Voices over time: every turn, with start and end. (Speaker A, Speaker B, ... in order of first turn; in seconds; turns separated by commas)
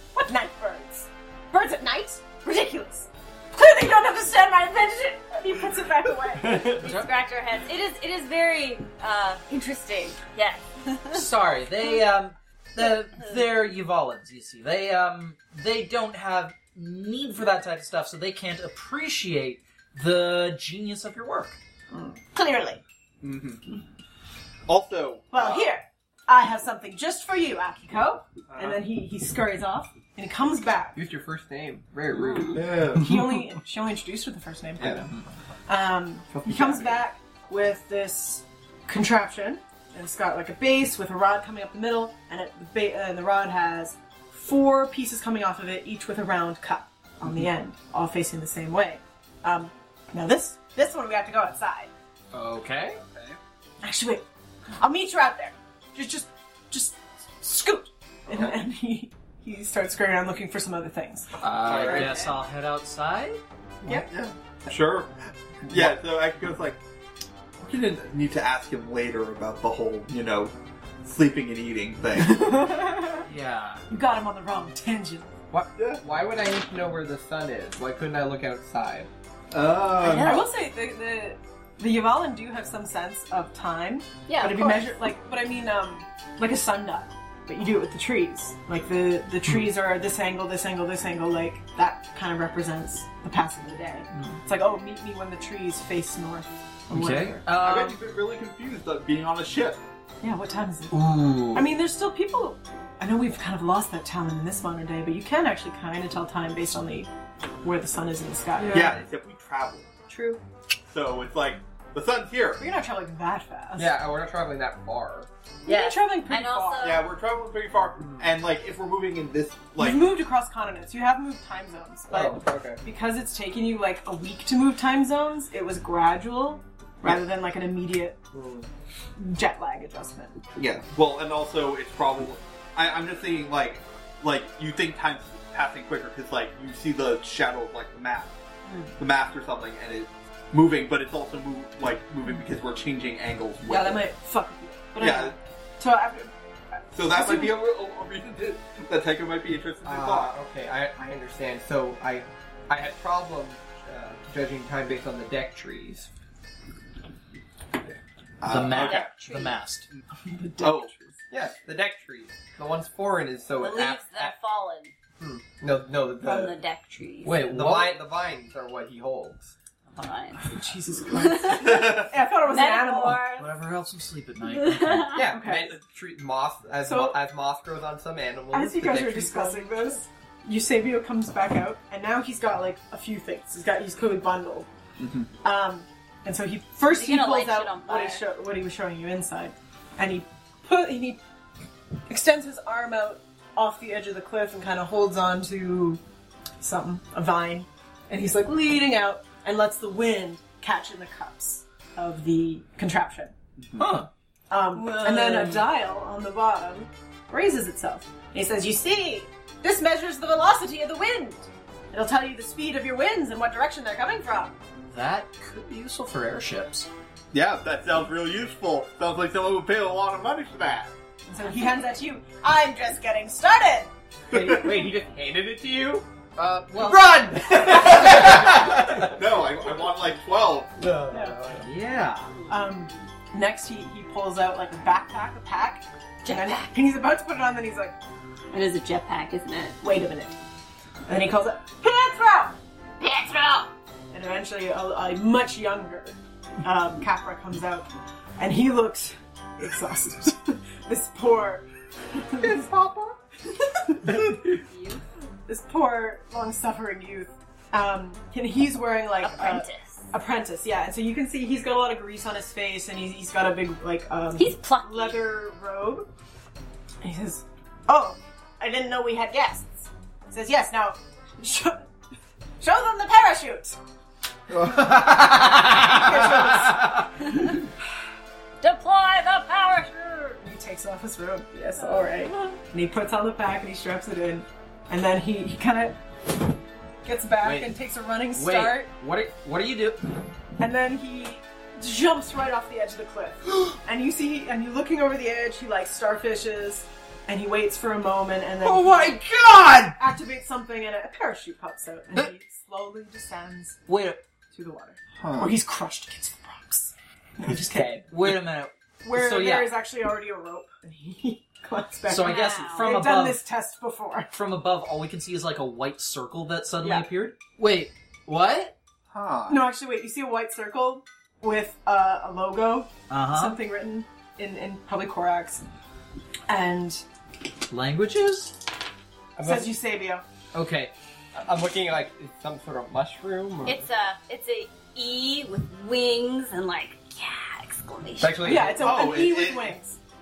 Speaker A: 0.1-6.8, Speaker B: 6.4-6.7, Speaker C: 6.7-11.3, Speaker D: 6.8-7.1, Speaker D: 11.1-21.6, Speaker A: 21.9-22.8, Speaker E: 23.2-23.7, Speaker E: 24.7-25.7, Speaker A: 25.3-31.0, Speaker E: 28.5-28.8, Speaker B: 30.9-32.6, Speaker C: 32.1-32.6, Speaker E: 32.5-33.1, Speaker A: 32.9-35.1, Speaker B: 34.8-35.1, Speaker A: 35.7-51.9, Speaker B: 36.4-36.9, Speaker D: 52.3-53.0, Speaker E: 53.0-53.4, Speaker A: 53.8-54.2, Speaker A: 54.8-61.3, Speaker D: 61.4-63.4, Speaker E: 61.7-62.1, Speaker B: 61.7-62.2, Speaker E: 64.1-66.8, Speaker E: 67.6-72.8, Speaker A: 72.2-73.3, Speaker D: 73.2-73.8, Speaker A: 73.9-75.3, Speaker B: 75.5-79.1, Speaker E: 75.8-76.0, Speaker E: 79.5-80.4, Speaker C: 80.0-80.5, Speaker A: 80.1-97.5, Speaker C: 84.3-84.9, Speaker D: 94.1-94.4, Speaker D: 96.9-98.0, Speaker E: 97.5-99.8, Speaker A: 100.2-107.1, Speaker D: 100.9-101.7, Speaker A: 107.6-109.0, Speaker E: 108.7-109.9, Speaker C: 110.1-110.4, Speaker E: 110.9-112.6, Speaker A: 112.6-114.0, Speaker B: 113.8-115.3, Speaker A: 115.7-117.0, Speaker C: 115.7-117.0, Speaker E: 116.8-120.1, Speaker B: 118.0-118.3, Speaker A: 119.8-128.2, Speaker B: 122.1-122.8, Speaker B: 128.3-128.7, Speaker A: 129.2-130.4, Speaker E: 130.6-138.3, Speaker E: 139.0-144.1, Speaker A: 143.7-146.3, Speaker E: 145.0-145.4, Speaker A: 146.9-147.6, Speaker E: 146.9-150.3, Speaker B: 149.8-156.1, Speaker E: 158.4-159.1, Speaker D: 158.5-159.9, Speaker C: 158.7-159.6, Speaker A: 160.2-161.0, Speaker E: 160.6-160.9, Speaker B: 161.3-164.3, Speaker C: 163.6-164.9, Speaker B: 165.2-166.6, Speaker C: 166.2-167.5, Speaker D: 167.2-168.0, Speaker B: 167.3-169.5, Speaker C: 169.9-170.5, Speaker A: 170.4-173.2, Speaker C: 171.1-173.5, Speaker D: 173.4-175.2, Speaker C: 174.5-175.3, Speaker B: 175.1-179.7, Speaker A: 175.3-175.8, Speaker A: 176.8-177.2, Speaker A: 178.5-184.7, Speaker E: 185.0-185.3, Speaker A: 185.4-191.2, Speaker C: 186.8-188.2, Speaker A: 192.1-196.0, Speaker A: 196.6-203.3, Speaker E: 203.6-203.9, Speaker D: 203.8-204.1, Speaker A: 204.5-214.6, Speaker C: 204.8-205.6, Speaker D: 204.8-205.4, Speaker D: 214.9-216.9, Speaker E: 217.3-220.9, Speaker A: 221.3-223.9, Speaker B: 224.3-226.1, Speaker E: 224.3-224.8, Speaker D: 226.4-229.1, Speaker B: 226.9-229.2, Speaker E: 227.7-230.8, Speaker B: 230.8-231.7, Speaker A: 231.1-231.4, Speaker D: 231.6-232.3, Speaker A: 232.5-237.9, Speaker C: 236.2-236.7, Speaker C: 238.5-239.8, Speaker A: 239.8-240.4, Speaker A: 241.1-242.6, Speaker C: 243.0-243.7, Speaker A: 244.1-252.7, Speaker A: 253.8-254.3, Speaker C: 254.5-255.0, Speaker A: 255.5-266.1, Speaker C: 259.2-260.0, Speaker C: 264.4-265.2, Speaker A: 267.0-271.9, Speaker A: 272.6-273.8, Speaker D: 274.5-277.1, Speaker A: 275.6-277.1, Speaker C: 278.6-280.4, Speaker A: 280.4-286.0, Speaker C: 281.8-282.6, Speaker A: 287.0-288.9, Speaker D: 287.4-287.7, Speaker D: 288.3-290.2, Speaker A: 290.6-299.2, Speaker D: 298.6-300.0, Speaker A: 300.0-303.8, Speaker D: 303.9-304.2, Speaker A: 304.5-308.0, Speaker E: 305.2-305.5, Speaker B: 307.5-308.1, Speaker D: 308.1-309.7, Speaker A: 309.0-314.3, Speaker D: 312.1-313.4, Speaker C: 312.2-313.0, Speaker D: 314.3-318.8, Speaker A: 316.8-317.1, Speaker E: 319.1-319.6, Speaker A: 319.5-325.6, Speaker D: 323.1-323.6, Speaker A: 326.5-327.0, Speaker D: 327.7-328.6, Speaker B: 329.4-329.7, Speaker A: 329.4-330.2, Speaker D: 330.5-330.9, Speaker B: 331.4-333.9, Speaker C: 333.6-338.6, Speaker B: 338.2-339.0, Speaker A: 338.4-340.0, Speaker E: 338.8-339.8